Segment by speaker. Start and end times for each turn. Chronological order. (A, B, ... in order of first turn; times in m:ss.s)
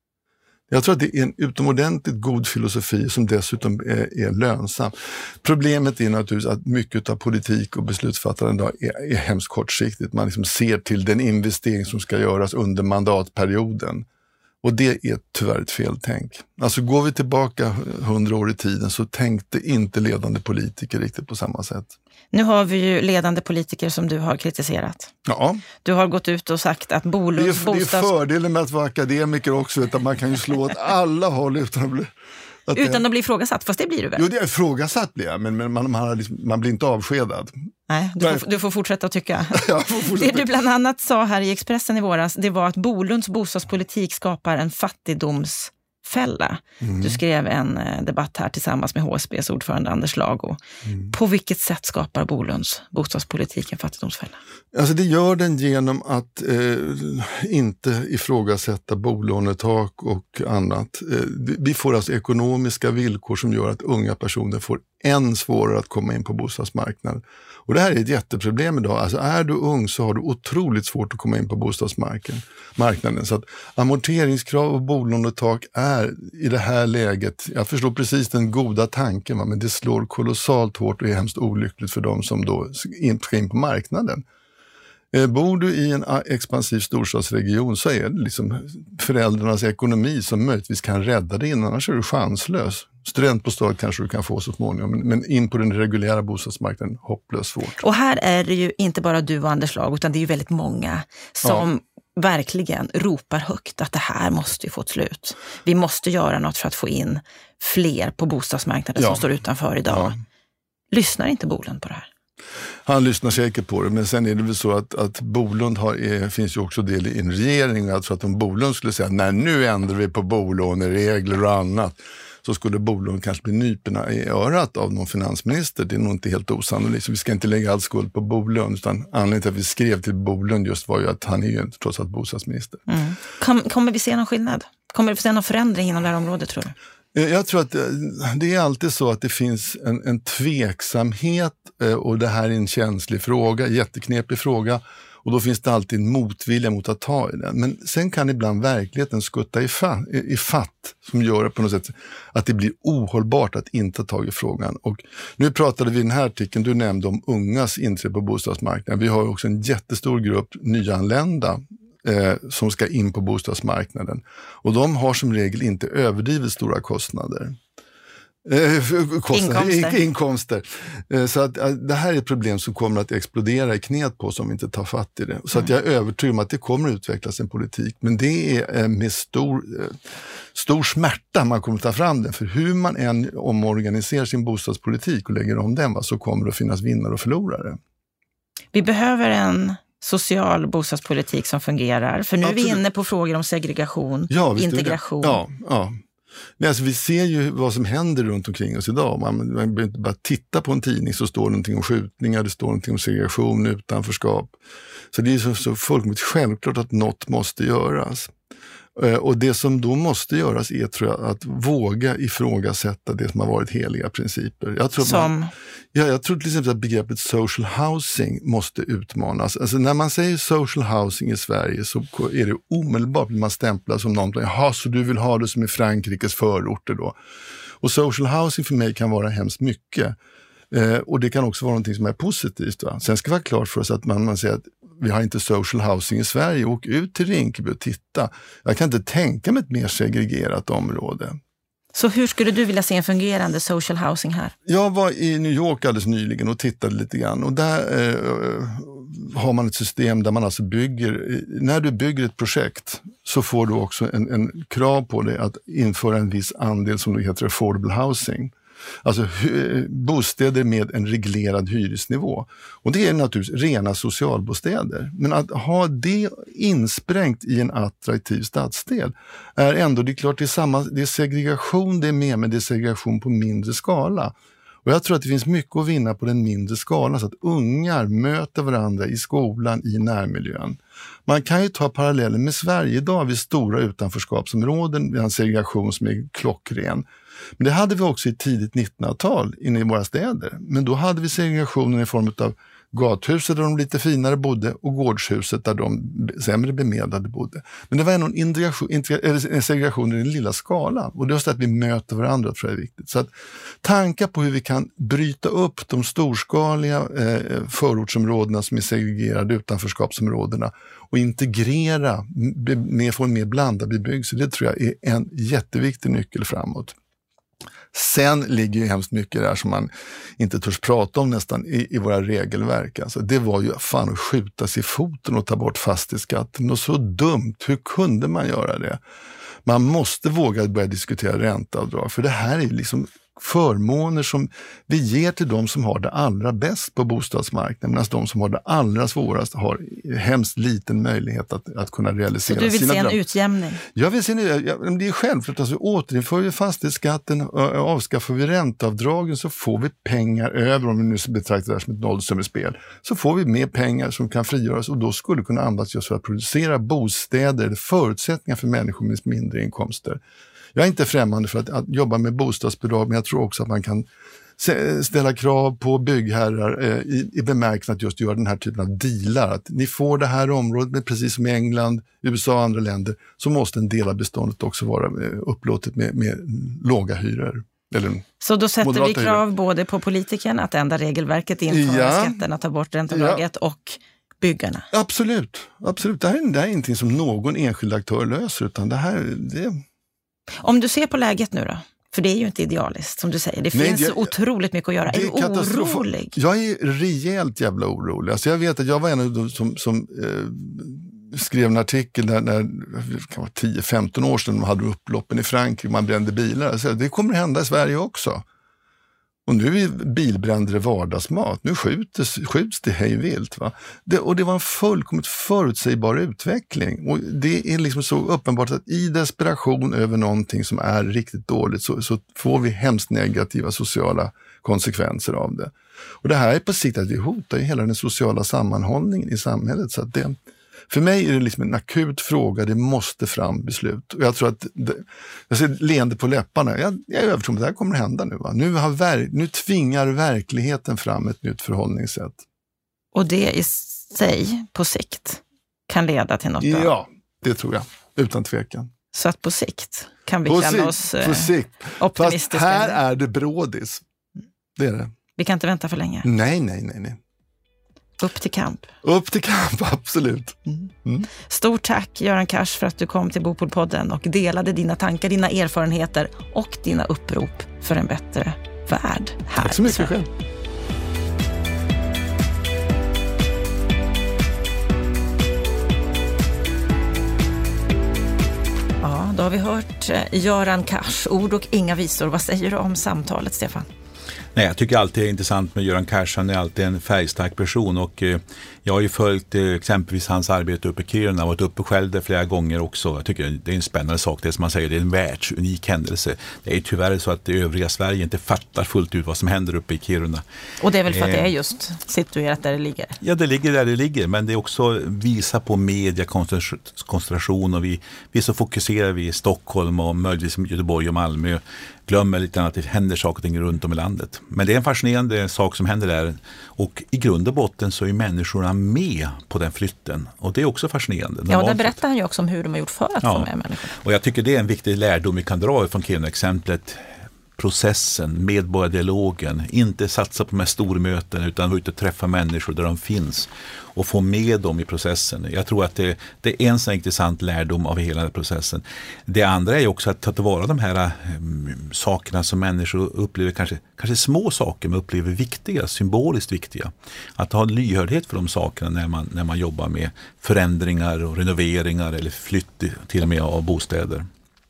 0:00.7-0:14.0 A
0:14.6-0:21.9 A
0:22.3-0:25.1 B
0:25.2-0:25.6 A
0:25.8-0:28.1 B
0:27.4-0:32.1 A
0:32.7-0:33.0 A
0:32.8-0:34.2 B
0:34.2-0:37.5 A
0:37.9-0:50.6 B
0:38.2-0:38.4 A
0:39.5-0:40.5 A
0:46.8-0:47.2 A
0:50.9-0:51.1 A
0:51.1-0:54.4 B
0:54.7-1:24.2 A
1:25.1-1:37.8 A
1:37.8-1:50.1 B
1:49.0-1:49.2 A
1:49.9-1:50.1 A
1:50.9-1:52.1 B
1:52.8-2:12.8 A
2:12.9-2:16.7 B
2:17.1-2:47.6 A
2:48.4-3:00.0 A
2:49.3-2:50.0 B
3:00.5-3:07.8 A
3:08.7-3:15.4 B
3:12.4-3:12.8 A
3:14.3-3:16.0 A
3:16.6-3:24.5 A
3:25.1-3:28.3 A
3:29.0-3:35.3 A
3:35.0-3:35.5 B
3:35.9-3:47.2 A
3:47.8-3:50.2 A
3:50.7-4:01.4 A
4:01.9-4:04.5 B
4:04.6-4:18.5 A
4:19.0-4:47.0 A
4:47.6-5:03.3 A
5:03.8-5:16.9 A
5:17.9-5:29.0 A
5:29.6-5:43.2 A
5:42.4-5:43.8 B
5:43.9-6:00.2 A
6:00.7-6:04.1 A
6:04.6-6:18.2 A
6:18.4-6:24.9 B
6:18.8-6:19.4 A
6:21.7-6:22.4 A
6:23.1-6:23.4 A
6:24.9-6:29.8 A
6:30.6-6:36.4 B
6:33.7-6:34.3 A
6:35.1-6:48.4 A
6:49.4-7:10.4 A
7:10.9-7:22.4 A
7:23.1-7:26.9 B
7:26.6-7:28.9 A
7:29.1-7:33.0 B
7:30.4-7:34.0 A
7:34.8-7:35.1 A
7:35.4-7:36.2 B
7:36.2-7:37.2 A
7:38.2-7:38.9 B
7:39.0-7:41.3 A
7:41.3-7:50.1 B
7:49.6-7:50.3 A
7:59.0-8:03.9 B
8:04.5-8:20.4 C
8:20.8-8:23.2 B
8:21.0-8:21.5 C
8:23.2-8:42.0 C
8:41.5-8:44.0 B
8:43.2-8:43.5 C
8:44.0-9:14.2 C